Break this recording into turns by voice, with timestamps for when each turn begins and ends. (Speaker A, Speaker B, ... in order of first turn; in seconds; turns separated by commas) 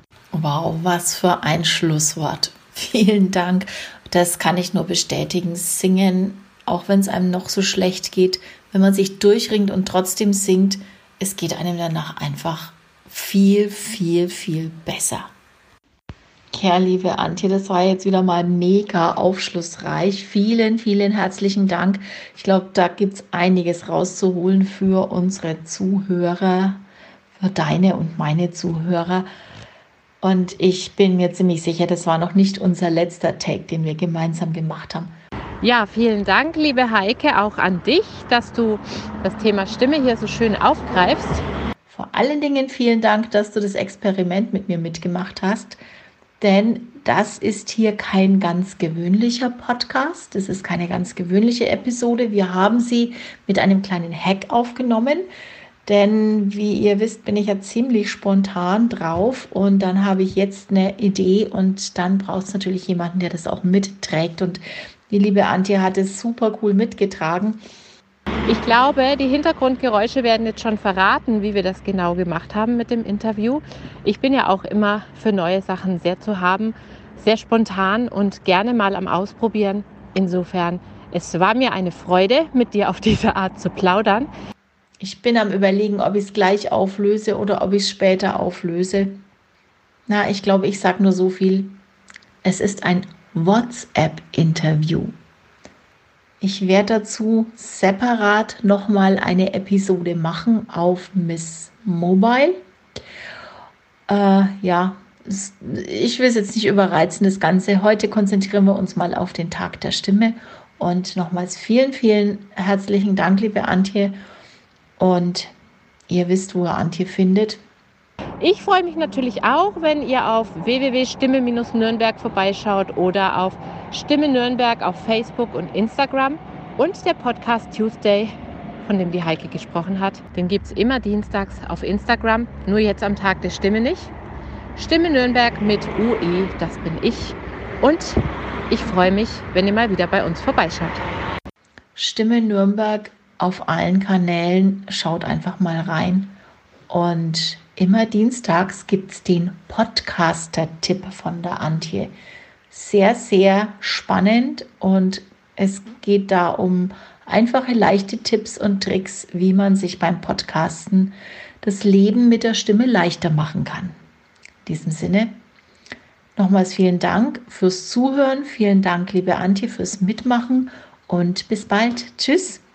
Speaker A: 0.3-15.3, Speaker A: 16.5-26.8, Speaker A: 27.4-29.3, Speaker A: 30.2-35.1, Speaker B: 35.6-41.5, Speaker A: 41.9-45.8, Speaker A: 46.4-55.3, Speaker A: 55.9-67.6, Speaker B: 68.5-84.3, Speaker A: 85.0-89.2, Speaker A: 90.1-91.8, Speaker A: 92.4-95.1, Speaker A: 96.4-102.6, Speaker A: 104.1-114.2, Speaker A: 115.0-115.5, Speaker A: 116.1-117.6, Speaker B: 118.4-128.3, Speaker B: 128.8-134.1, Speaker B: 134.8-141.0, Speaker A: 142.0-146.4, Speaker A: 146.9-152.1, Speaker A: 152.7-163.9, Speaker A: 164.7-165.4, Speaker A: 166.4-172.6